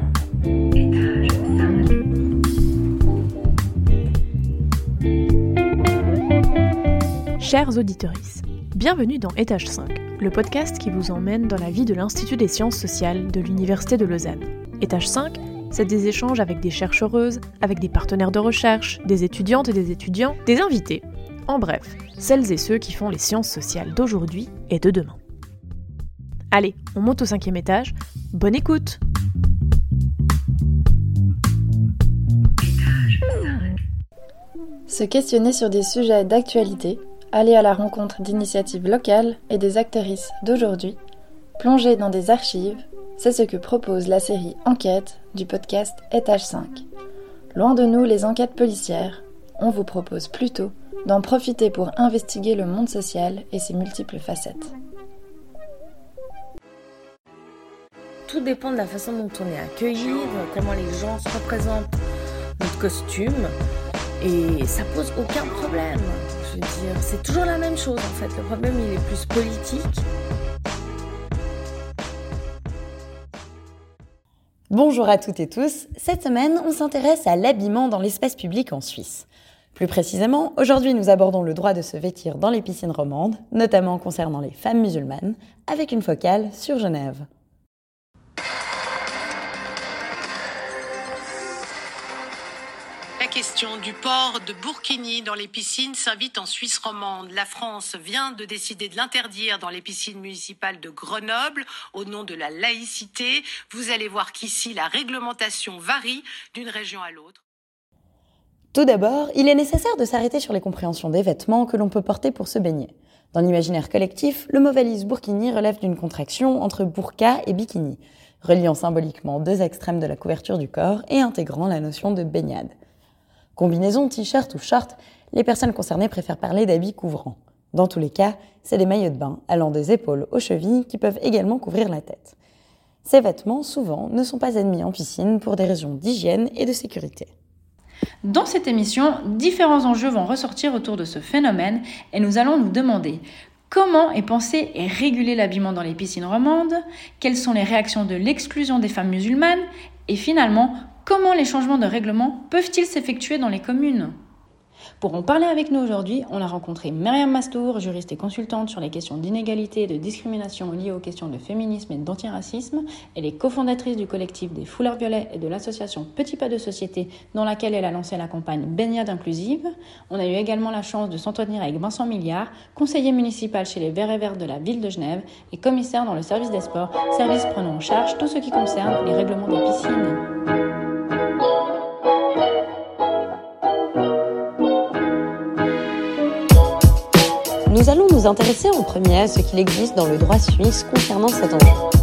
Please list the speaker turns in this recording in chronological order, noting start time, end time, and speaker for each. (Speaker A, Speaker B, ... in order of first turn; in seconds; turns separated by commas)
Speaker A: 7.4-25.2, Speaker A: 26.5-29.0, Speaker B: 34.9-41.0, Speaker B: 41.6-46.8, Speaker B: 47.5-54.7, Speaker C: 58.2-62.0, Speaker C: 62.6-63.6, Speaker C: 64.2-70.0, Speaker D: 74.7-87.2, Speaker E: 93.2-107.4, Speaker D: 108.7-122.7, Speaker D: 123.5-132.3, Speaker D: 133.0-137.3, Speaker F: 138.2-154.1, Speaker F: 155.0-180.2, Speaker D: 187.7-191.8